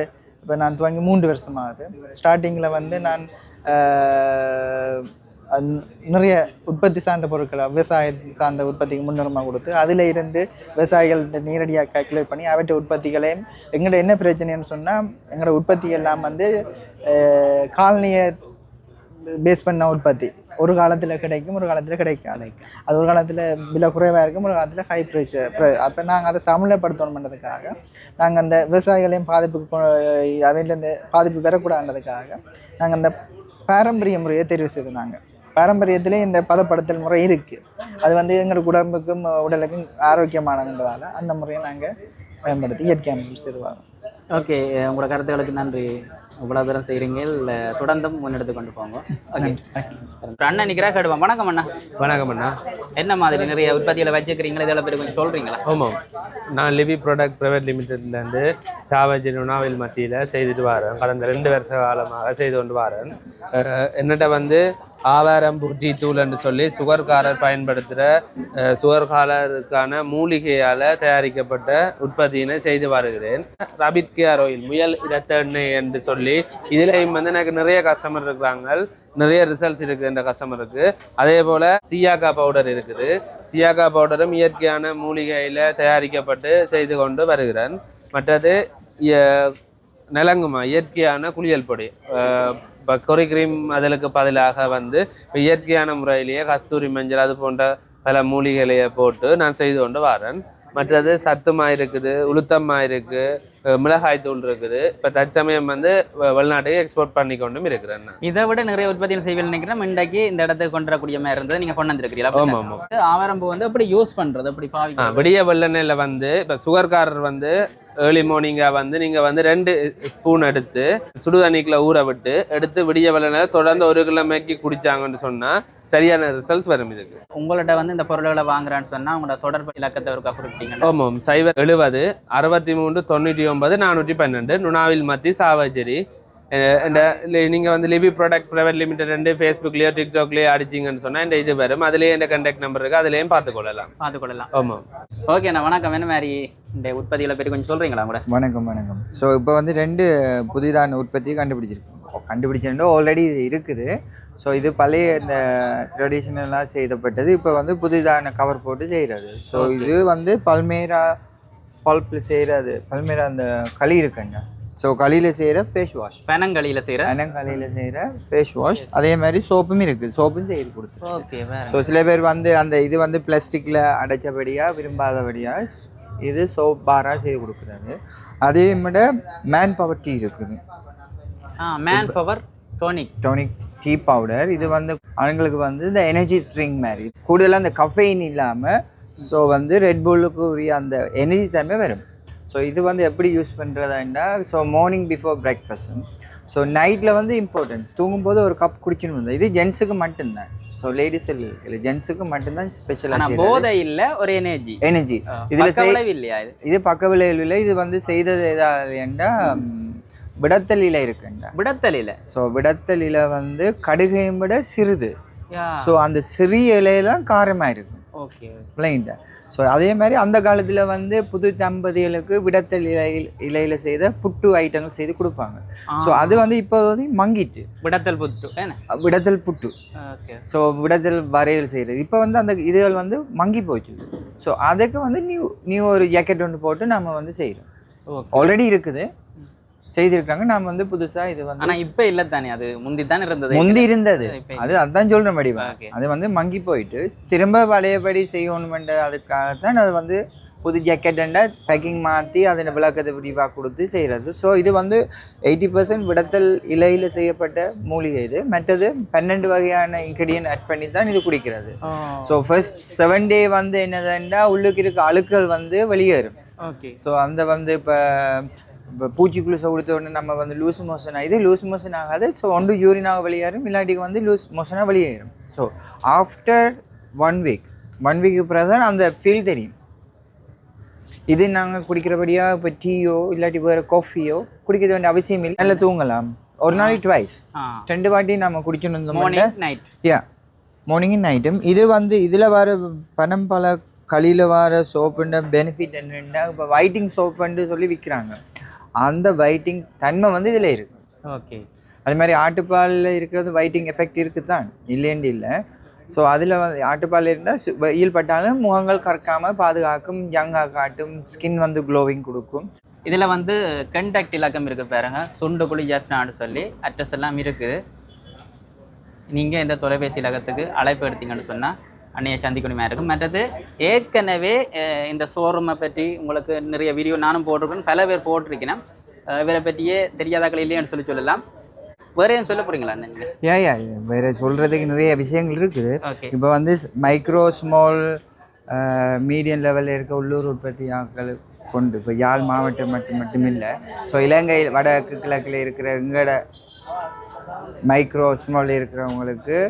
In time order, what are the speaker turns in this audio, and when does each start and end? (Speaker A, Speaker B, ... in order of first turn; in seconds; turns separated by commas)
Speaker A: 0.5-16.5, Speaker A: 17.1-18.4, Speaker A: 19.4-33.1, Speaker B: 22.4-22.6, Speaker A: 33.7-41.9, Speaker A: 42.5-43.8, Speaker B: 44.3-49.6, Speaker A: 49.4-50.0, Speaker B: 50.2-51.7, Speaker C: 52.0-52.5, Speaker B: 53.0-55.6, Speaker C: 55.7-56.0, Speaker C: 56.5-68.1, Speaker C: 68.6-89.5, Speaker C: 90.2-108.2, Speaker B: 108.2-115.3, Speaker C: 112.3-112.8, Speaker C: 115.0-127.2, Speaker B: 127.4-130.9, Speaker C: 130.8-136.0, Speaker C: 136.5-143.9, Speaker B: 144.0-144.5, Speaker C: 144.5-144.8, Speaker B: 145.3-148.2, Speaker D: 148.3-161.1, Speaker B: 159.6-159.9, Speaker D: 161.8-166.2, Speaker B: 166.3-167.2, Speaker D: 167.1-180.6, Speaker B: 171.0-171.9, Speaker B: 181.6-183.1, Speaker D: 183.2-203.7, Speaker B: 203.1-204.8, Speaker D: 204.8-206.0, Speaker B: 205.3-206.5, Speaker D: 206.6-211.5, Speaker B: 211.6-212.2, Speaker D: 212.3-215.1, Speaker B: 215.5-215.9, Speaker D: 215.8-218.0, Speaker B: 218.2-218.7, Speaker D: 218.8-227.7, Speaker B: 225.9-226.5, Speaker B: 227.8-228.8, Speaker D: 228.9-229.7, Speaker B: 230.0-230.4, Speaker D: 230.5-237.7, Speaker B: 238.1-238.5, Speaker D: 238.3-239.1, Speaker D: 239.9-241.9, Speaker B: 241.6-244.8, Speaker D: 243.5-266.4, Speaker B: 245.6-245.9, Speaker B: 261.9-262.4, Speaker B: 266.6-267.0, Speaker D: 267.0-279.7, Speaker D: 281.3-289.5, Speaker B: 286.7-287.0, Speaker B: 287.6-287.9, Speaker B: 289.1-289.9, Speaker D: 290.9-298.4, Speaker D: 299.0-301.0, Speaker B: 301.3-301.6, Speaker D: 302.1-305.6, Speaker D: 306.1-312.7, Speaker B: 313.1-317.8, Speaker B: 319.3-331.4, Speaker B: 332.2-333.3, Speaker D: 333.4-338.2, Speaker B: 336.0-336.3, Speaker D: 338.7-346.4, Speaker D: 347.9-349.6